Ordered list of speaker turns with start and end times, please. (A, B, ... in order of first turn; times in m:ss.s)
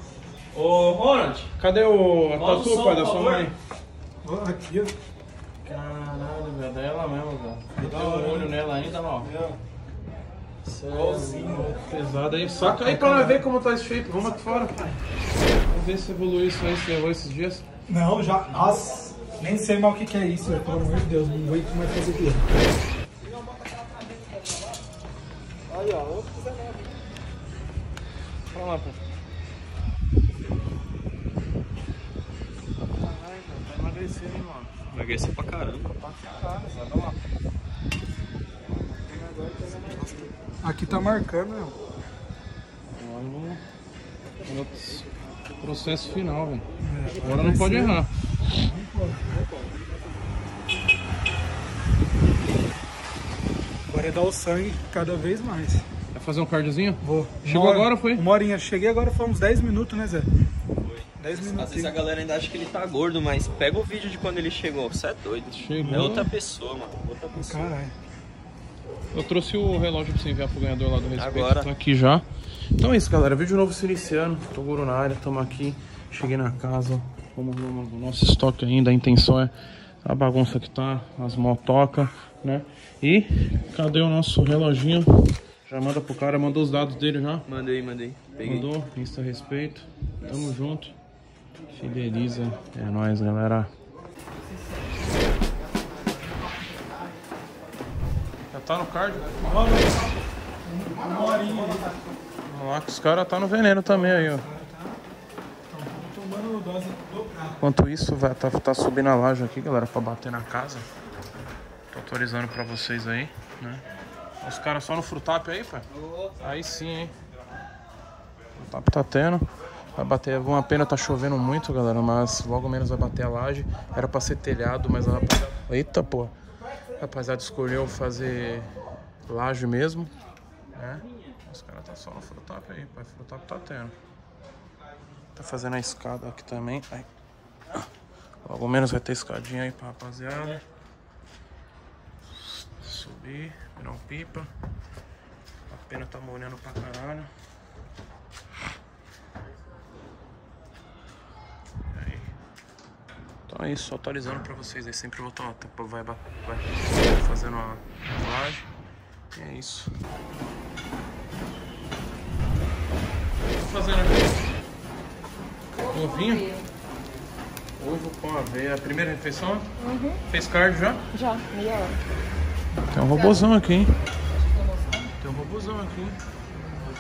0:01.4-0:03.5 A
0:04.2-0:05.0 B
0:05.6-0:09.3 A
0:07.8-0:08.5 B
0:09.2-0:09.6 B
0:10.7-0:14.8 A
0:10.9-0:11.7 B
0:12.6-0:13.4 B
0:15.7-0:17.6 A
0:17.9-0:22.7 B
0:28.5-0:29.0 A
0:33.1-0:34.7 A
0:34.9-0:35.9 C
0:36.1-0:37.1 A
0:39.2-0:41.8 B
0:42.9-0:43.6 A
0:44.5-0:46.6 A
0:46.8-0:49.4 B
0:47.2-0:48.1 A
0:53.9-0:55.9 B
0:56.1-0:58.2 A
0:57.0-1:00.3 B
1:01.2-1:02.0 B
1:01.4-1:07.7 C
1:05.5-1:06.3 A
1:05.8-1:06.2 B
1:07.3-1:07.9 B
1:09.1-1:12.2 A
1:11.2-1:11.7 C
1:12.8-1:19.5 A
1:20.0-1:27.4 A
1:27.5-1:28.7 C
1:28.4-1:31.0 A
1:31.7-1:33.7 A
1:38.5-1:39.5 A
1:39.4-1:41.9 B
1:42.4-1:44.5 A
1:43.8-1:45.0 B
1:45.7-1:47.6 B
1:47.6-1:50.9 A
1:51.9-1:53.8 A
1:54.4-1:55.8 A
1:56.4-1:57.1 A
1:58.6-1:59.4 A
2:00.0-2:06.3 A
2:07.0-2:08.7 A
2:09.3-2:10.1 A
2:10.7-2:14.0 A
2:15.4-2:17.1 A
2:18.4-2:20.6 A
2:22.3-2:24.5 A
2:25.7-2:27.3 A
2:31.9-2:32.3 A
2:33.5-2:38.7 A
2:39.3-2:39.9 A
2:43.6-2:44.4 A
2:45.9-2:46.6 D
2:45.9-2:46.5 A
2:47.8-2:49.7 A
2:49.8-2:50.2 D
2:50.3-2:51.0 A
2:51.1-2:52.0 D
2:52.9-2:53.9 A
2:53.1-2:53.5 D
2:54.6-2:55.0 D
2:55.2-2:56.2 A